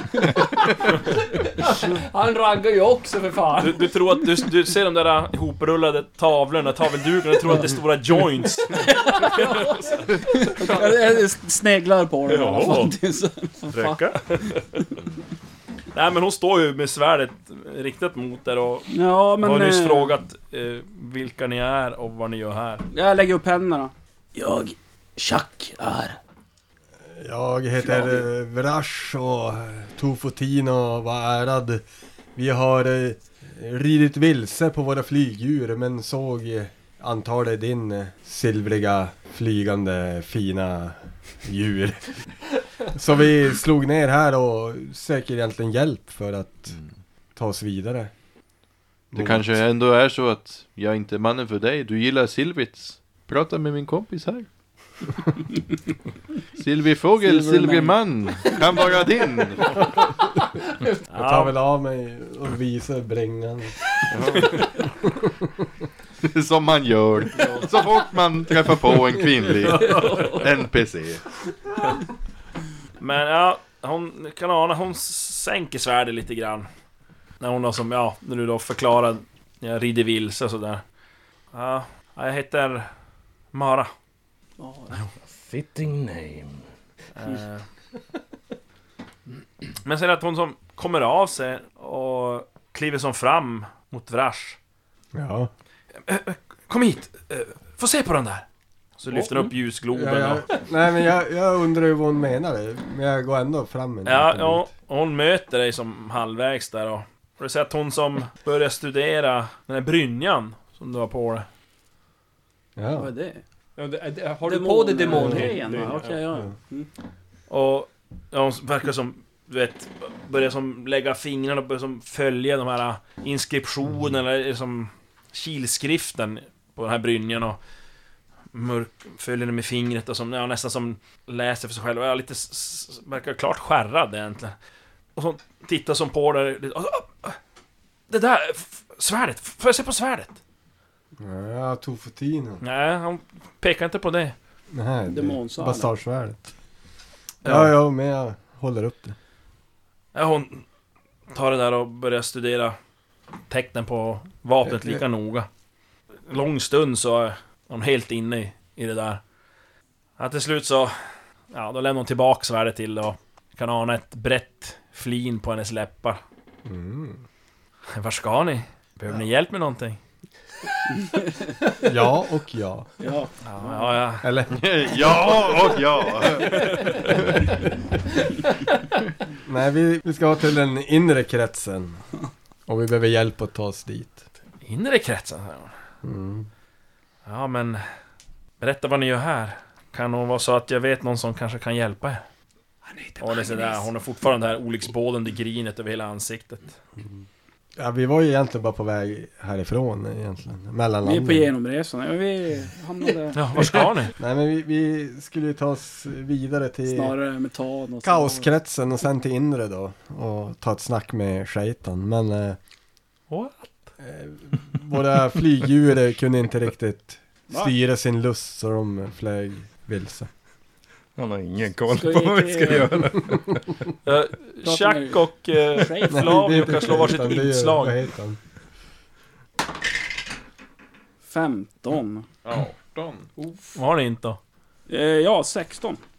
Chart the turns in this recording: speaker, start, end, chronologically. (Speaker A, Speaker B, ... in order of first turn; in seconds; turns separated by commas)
Speaker A: 0.4-3.9, Speaker B: 3.6-10.8, Speaker C: 8.8-9.4, Speaker A: 9.2-10.0, Speaker C: 10.3-14.0, Speaker B: 12.3-13.0, Speaker B: 13.7-14.9, Speaker B: 15.9-22.9, Speaker C: 18.9-20.1, Speaker C: 22.9-26.2, Speaker D: 27.1-31.8, Speaker C: 27.8-28.2, Speaker D: 32.4-42.2, Speaker D: 42.8-46.8, Speaker D: 47.4-48.1, Speaker D: 49.1-49.5, Speaker E: 49.2-54.5, Speaker E: 56.6-59.9, Speaker C: 57.2-59.4, Speaker B: 61.1-61.5, Speaker D: 61.1-63.8, Speaker E: 64.1-64.7, Speaker D: 65.0-65.7, Speaker E: 66.2-71.2, Speaker A: 67.4-67.7, Speaker B: 73.0-76.7, Speaker B: 77.4-80.8, Speaker B: 81.5-82.9, Speaker B: 83.5-83.9, Speaker C: 84.6-85.1, Speaker F: 85.3-86.7, Speaker B: 87.2-87.7, Speaker B: 89.8-94.6, Speaker D: 95.1-95.5, Speaker B: 96.0-98.5, Speaker B: 99.0-100.5, Speaker D: 99.1-104.7, Speaker B: 104.0-111.5, Speaker D: 112.8-113.1, Speaker C: 113.0-113.4, Speaker A: 113.8-116.3, Speaker C: 114.4-116.9, Speaker B: 117.5-127.6, Speaker B: 128.5-134.6, Speaker B: 135.2-137.4, Speaker B: 138.1-140.4, Speaker D: 141.2-142.6, Speaker B: 142.6-144.3, Speaker D: 144.7-146.4, Speaker C: 145.1-145.9, Speaker B: 147.4-147.7, Speaker D: 147.4-149.2, Speaker B: 150.2-150.7, Speaker B: 151.3-152.8, Speaker B: 153.5-155.5, Speaker D: 154.6-155.0, Speaker B: 156.3-159.2, Speaker B: 160.2-160.9, Speaker B: 161.5-166.2, Speaker D: 166.7-167.2, Speaker B: 167.9-170.0, Speaker C: 170.9-171.5, Speaker D: 171.8-172.9, Speaker C: 173.0-173.8, Speaker B: 173.4-174.3, Speaker D: 174.2-175.4, Speaker E: 174.5-176.9, Speaker D: 179.4-182.0, Speaker D: 182.7-184.2, Speaker B: 184.6-185.7, Speaker D: 186.0-186.5, Speaker B: 187.3-187.8, Speaker B: 188.6-192.2, Speaker B: 193.2-196.8, Speaker D: 197.8-201.5, Speaker C: 201.1-203.7, Speaker B: 203.3-204.2, Speaker D: 204.2-207.2, Speaker C: 206.9-208.5, Speaker D: 208.0-212.6, Speaker B: 213.3-213.7, Speaker D: 214.0-220.3, Speaker F: 221.2-223.6, Speaker C: 221.9-223.1, Speaker B: 224.1-228.0, Speaker C: 224.6-226.9, Speaker D: 226.1-228.4, Speaker C: 231.2-232.3, Speaker E: 232.4-233.3, Speaker A: 233.4-233.8, Speaker B: 233.7-234.4, Speaker C: 234.9-236.0